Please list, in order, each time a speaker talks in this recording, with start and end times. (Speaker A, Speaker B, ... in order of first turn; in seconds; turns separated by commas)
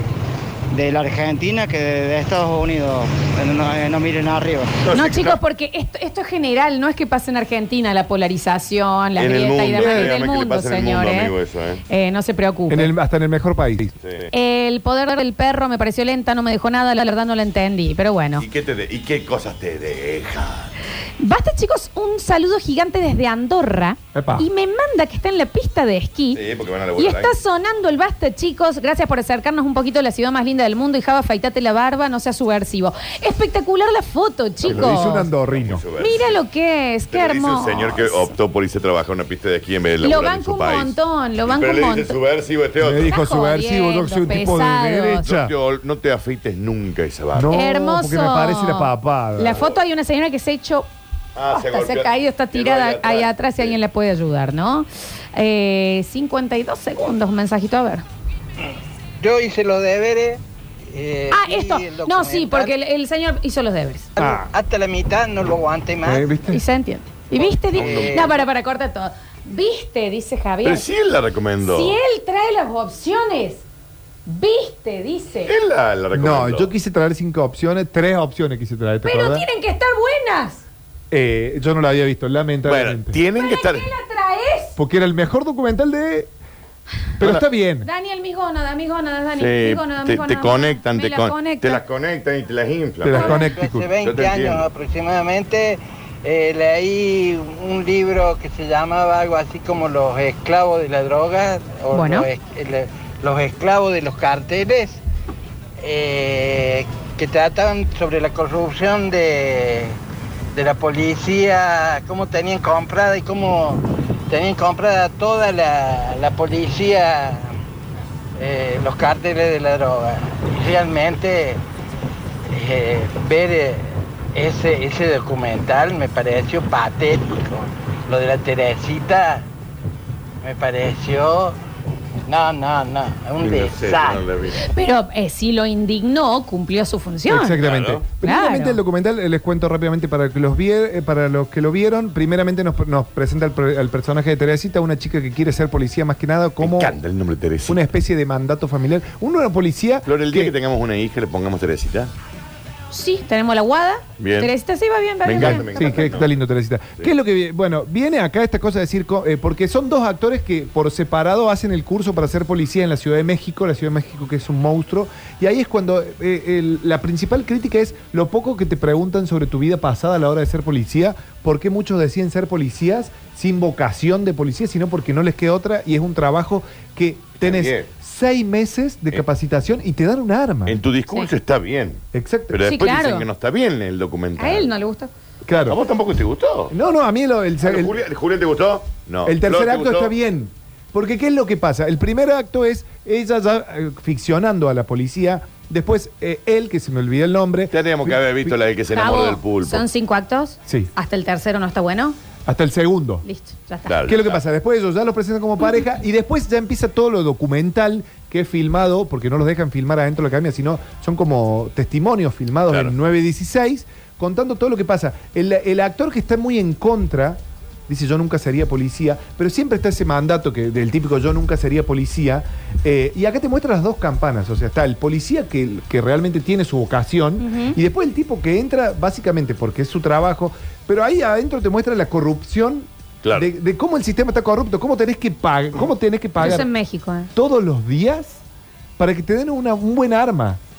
Speaker A: 0.7-4.7, Speaker B: 4.8-5.4, Speaker C: 4.9-11.3, Speaker B: 9.2-11.8, Speaker D: 9.8-10.1, Speaker C: 11.9-12.9, Speaker D: 12.7-13.9, Speaker B: 14.0-14.3, Speaker C: 14.3-18.4, Speaker B: 18.4-20.7, Speaker C: 21.2-26.4, Speaker D: 24.1-24.5, Speaker B: 26.3-27.4, Speaker C: 27.0-35.3, Speaker B: 34.6-36.4, Speaker D: 34.6-35.8, Speaker C: 36.0-38.3, Speaker B: 37.1-43.1, Speaker C: 40.0-42.2, Speaker D: 42.8-45.5, Speaker C: 43.1-45.3, Speaker B: 45.2-47.5, Speaker D: 47.3-49.6, Speaker C: 47.5-50.9, Speaker B: 51.4-53.8, Speaker C: 51.5-58.0, Speaker E: 59.2-60.4, Speaker E: 60.9-62.7, Speaker C: 61.3-64.2, Speaker D: 64.2-64.5, Speaker E: 64.2-66.3, Speaker D: 66.0-66.6, Speaker C: 66.5-70.9, Speaker E: 67.4-68.4, Speaker B: 67.7-68.3, Speaker B: 70.6-72.0, Speaker C: 71.6-73.6, Speaker C: 74.2-75.5, Speaker B: 75.5-76.7, Speaker D: 76.1-79.5, Speaker C: 79.0-80.6, Speaker D: 81.1-83.2, Speaker B: 82.7-83.9, Speaker C: 83.3-84.8, Speaker D: 84.8-86.3, Speaker D: 87.2-87.9, Speaker C: 87.8-91.8, Speaker B: 89.4-93.5, Speaker D: 93.0-93.8, Speaker E: 93.1-105.0, Speaker B: 94.0-94.6, Speaker C: 101.9-102.3, Speaker E: 105.8-110.0, Speaker E: 110.5-117.5, Speaker E: 118.4-121.6, Speaker E: 122.5-129.5, Speaker E: 130.4-131.6, Speaker E: 132.3-134.2, Speaker B: 133.4-134.7, Speaker C: 134.7-137.6, Speaker D: 137.3-146.9, Speaker B: 137.6-138.0, Speaker C: 138.2-138.8, Speaker B: 146.6-147.8, Speaker D: 147.7-150.5, Speaker B: 150.1-152.1, Speaker C: 152.9-156.1, Speaker B: 154.2-154.5, Speaker B: 155.2-156.3, Speaker D: 155.4-180.8, Speaker B: 177.4-177.9, Speaker B: 180.7-184.7, Speaker D: 182.1-182.7, Speaker C: 182.6-183.3, Speaker C: 184.4-185.1, Speaker D: 185.5-185.8, Speaker B: 185.7-186.7, Speaker D: 186.7-187.9, Speaker B: 187.6-190.1, Speaker D: 189.2-198.6, Speaker B: 197.7-199.9, Speaker C: 198.9-202.2, Speaker D: 202.5-203.2, Speaker C: 203.2-203.9, Speaker B: 203.9-204.4, Speaker D: 204.1-236.7, Speaker B: 212.7-212.9, Speaker C: 227.4-227.8, Speaker B: 233.2-233.5, Speaker C: 236.4-237.3, Speaker D: 237.3-238.4, Speaker D: 239.0-240.6